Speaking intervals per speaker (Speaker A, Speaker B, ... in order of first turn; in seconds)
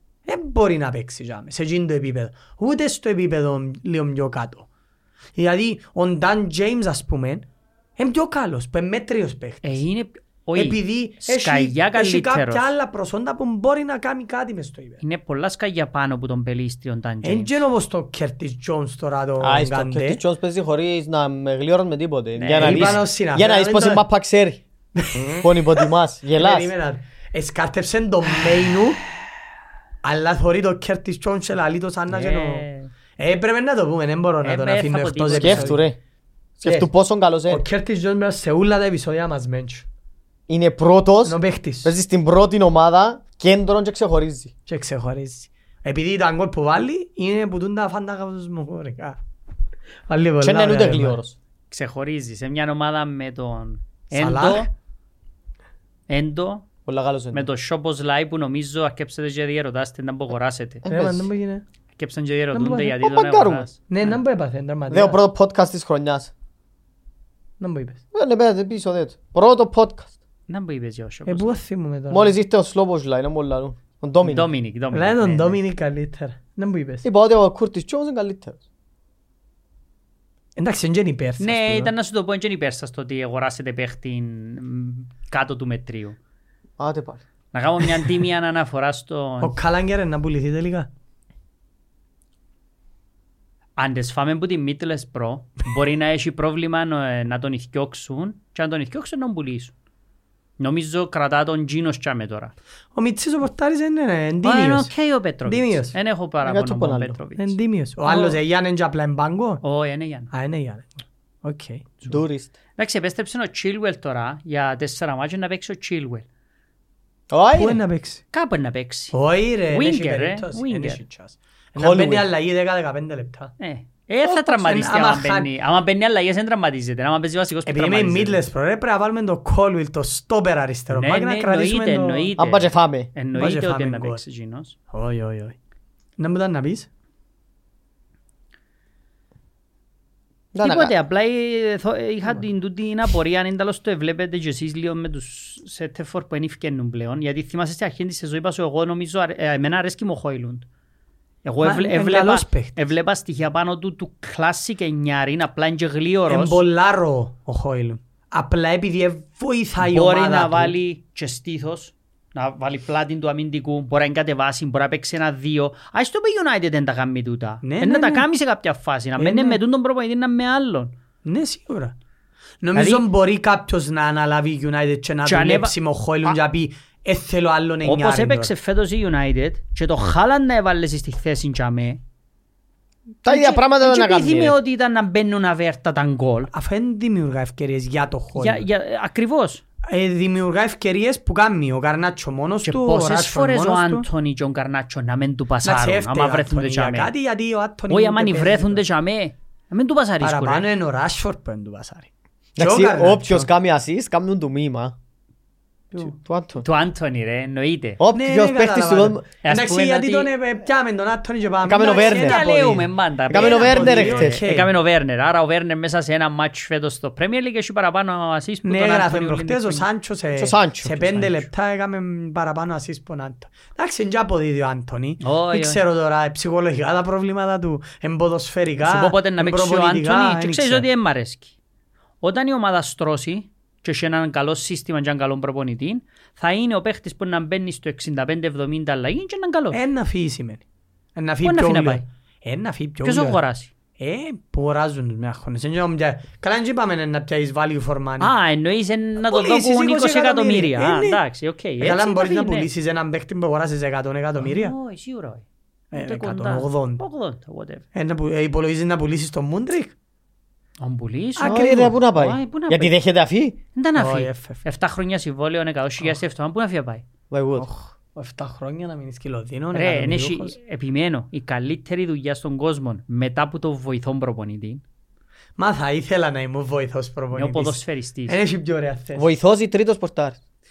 Speaker A: 0.2-4.7, 5.3-7.5, 8.0-9.8, 10.5-15.0, 17.2-20.2, 22.6-24.0, 24.9-29.0, 30.0-35.8, 36.6-36.9, 37.5-39.9, 41.2-41.9, 44.7-49.2, 50.1-51.2, 54.1-54.7, 60.9-61.6, 62.5-62.9, 63.9-65.2, 67.6-68.0, 71.3-72.3, 74.9-77.0, 80.6-81.9, 89.4-90.9, 102.9-104.9, 105.5-105.9, 107.4-109.6, 110.3-112.0, 117.5-118.2, 119.1-123.5, 124.2-125.5, 127.7-132.3, 133.3-134.2, 134.9-135.6, 136.2-136.9, 151.6-152.8, 156.3-160.7, 167.6-168.2, 169.2-169.6, 171.2-171.9, 172.6-178.5, 186.5-188.6, 189.9-194.1, 195.6-198.8, 200.2-203.5, 208.1-214.7, 218.6-230.8, 239.7-240.6, 241.2-243.4, 244.0-248.3, 249.2-251.2, 251.8-254.7, 255.9-257.0, 257.9-259.9, 261.4-262.0, 263.9-264.6, 267.6-270.6, 275.6-279.3
Speaker B: 9.6-12.7, 15.0-17.6, 22.4-23.0, 32.1-32.9, 34.4-35.8, 51.7-54.7, 56.1-56.6, 57.3-60.8, 62.0-64.1, 70.5-71.6, 74.2-75.6, 81.4-86.2, 87.5-89.6, 93.8-99.7, 100.6-102.5, 104.4-108.4, 109.6-110.3, 112.8-116.2, 118.3-119.1, 119.7-121.0, 123.6-128.4, 130.9-134.8, 140.6-150.7, 151.4-156.6, 159.8-170.9, 172.7-173.1, 175.2-175.7, 177.8-182.0, 183.2-186.5, 188.3-189.6, 192.6-197.1, 197.9-200.7, 206.6-208.0, 209.4-210.3, 211.8-219.8, 220.9-221.5, 225.2-225.8, 228.8-231.5, 232.2-239.8, 241.4-242.0, 243.0-243.7, 248.2-252.7, 254.4-257.9, 260.8-262.9, 263.8-267.0, 269.7-274.8, 277.3-278.4
Speaker C: 19.4-24.6, 25.4-26.7, 35.4-36.0, 36.6-37.6, 40.5-44.5, 50.4-51.3, 56.9-57.5, 60.8-61.2, 63.0-63.7, 64.9-66.3, 68.1-70.1, 72.1-74.5, 77.0-78.6, 86.8-87.2, 106.4-107.2, 112.1-112.5, 117.3-117.8, 121.8-122.3, 132.4-133.1, 140.5-140.9, 183.2-184.6, 202.6-204.9, 206.2-206.6, 208.0-209.2, 211.6-212.5, 213.3-214.4, 220.3-220.9, 261.4-263.6, 267.3-267.7, 279.2-280.4